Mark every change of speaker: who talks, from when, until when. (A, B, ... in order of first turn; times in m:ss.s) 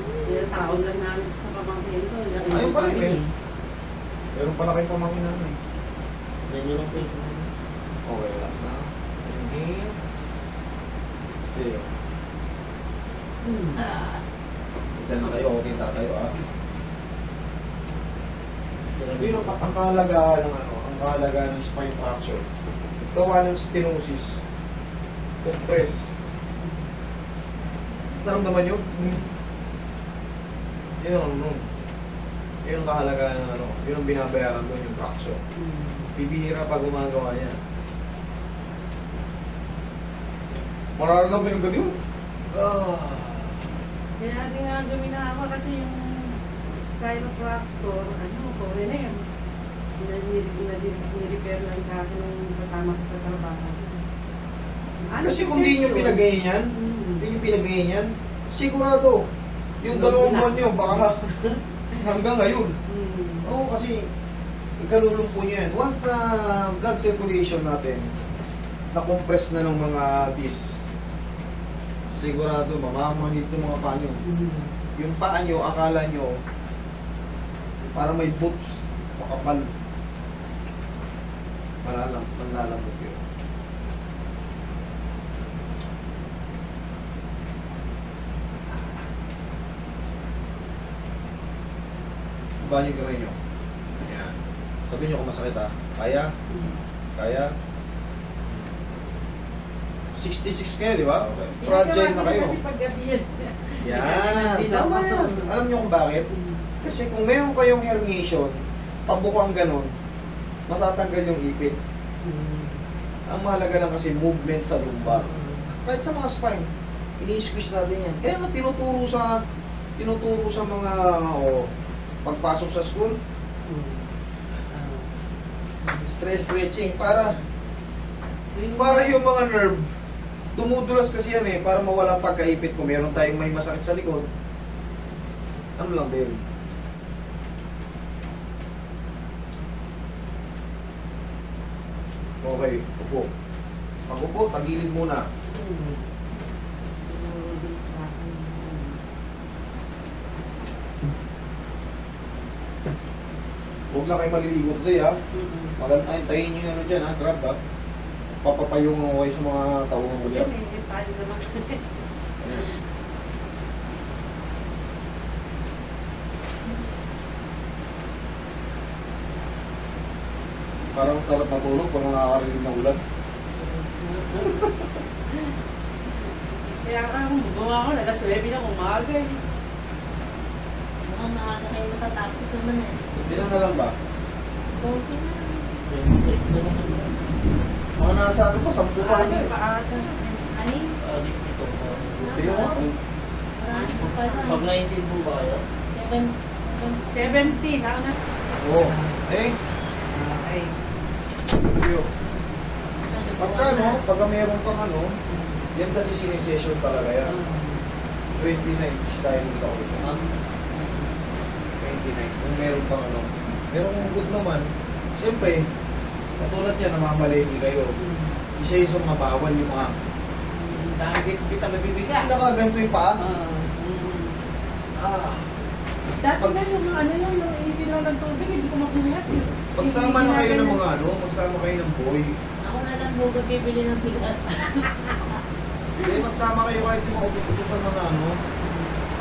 0:00.2-0:03.3 A
0:02.4-0:03.2 B
0:04.3-0:05.6 B
0:06.5-0:07.5 C
0:08.0-0:09.9 B
0:11.4-0:11.9 B
0:13.4-0:13.8 A
0:15.0-0:16.3 B
0:19.0-0:19.6 C
0:19.2-0:22.4 B
0:23.0-0:24.4 B
0:25.4-0:26.1 B
0:28.2-0:29.3 B
0:31.0-0:31.6 B
0:32.6-0:35.4 B
0:35.6-0:36.1 A
0:36.2-0:37.6 B
0:40.9-0:42.0 B
0:42.5-0:43.6 B
0:44.2-0:46.4 A
0:47.0-0:49.2 A
0:50.0-0:53.9 A
0:55.0-0:56.2 A
0:55.2-0:59.2 B
0:56.7-0:57.2 A
0:59.8-1:01.2 B
0:59.8-1:01.6 A
1:02.0-1:02.8 B
1:02.9-1:03.5 A
1:03.4-1:04.1 B
1:04.8-1:08.1 B
1:08.9-1:10.8 B
1:12.1-1:14.2 B
1:14.2-1:14.7 A
1:15.0-1:16.3 B
1:17.9-1:19.7 B
1:21.8-1:23.2 B
1:32.6-1:33.4 B
1:34.0-1:34.3 B
1:34.9-1:36.3 B
1:36.5-1:36.8 A
1:37.2-1:37.5 B
1:40.2-1:42.6 B
1:41.6-1:45.5 A
1:43.8-1:46.3 B
1:46.3-1:46.7 A
1:46.8-1:48.6 B
1:49.1-1:49.9 B
1:50.7-1:51.8 B
1:52.2-1:52.8 A
1:53.3-1:59.4 B
1:55.1-1:55.7 A
2:00.0-2:01.7 B
2:02.2-2:03.2 B
2:03.6-2:04.1 A
2:04.7-2:05.1 A
2:06.1-2:07.4 B
2:06.4-2:07.5 D
2:08.5-2:09.2 A
2:08.7-2:09.9 B
2:10.5-2:14.2 B
2:15.8-2:16.4 B
2:22.4-2:23.3 B
2:24.1-2:25.3 B
2:25.5-2:26.1 A
2:27.0-2:29.0 A
2:33.9-2:35.2 B
2:35.3-2:35.7 A
2:35.8-2:37.6 B
2:38.4-2:40.5 B
2:40.3-2:41.9 A
2:42.4-2:42.7 B
2:50.9-2:53.0 B
2:54.0-2:54.8 A
2:54.1-2:54.6 D
2:56.7-2:59.4 A
3:01.0-3:03.0 D
3:03.1-3:04.0 B
3:04.7-3:06.0 D
3:05.8-3:07.3 C
3:08.0-3:09.5 B
3:09.0-3:10.4 A
3:10.4-3:11.0 D
3:11.0-3:12.8 C
3:12.2-3:12.9 D
3:12.3-3:12.9 B
3:13.6-3:14.7 D
3:13.7-3:14.5 A
3:14.0-3:15.6 C
3:15.9-3:17.6 D
3:17.1-3:18.1 A
3:18.6-3:19.6 B
3:18.8-3:19.2 A
3:20.1-3:20.8 A
3:21.5-3:22.1 B
3:23.0-3:24.0 D
3:23.4-3:25.1 B
3:25.3-3:25.7 A
3:25.7-3:27.3 B
3:27.2-3:27.9 A
3:28.4-3:30.2 B
3:30.0-3:31.2 A
3:31.8-3:35.7 B
3:36.4-3:38.0 B
3:38.0-3:38.4 A
3:38.6-3:40.0 B
3:40.5-3:42.4 A
3:42.2-3:43.2 B
3:43.2-3:44.4 A
3:45.0-3:45.6 B
3:46.2-3:50.8 A
3:46.4-3:46.7 B
3:49.7-3:52.3 B
3:52.6-3:55.4 D
3:54.6-3:55.1 A
3:56.0-3:58.4 B
3:58.6-3:59.0 A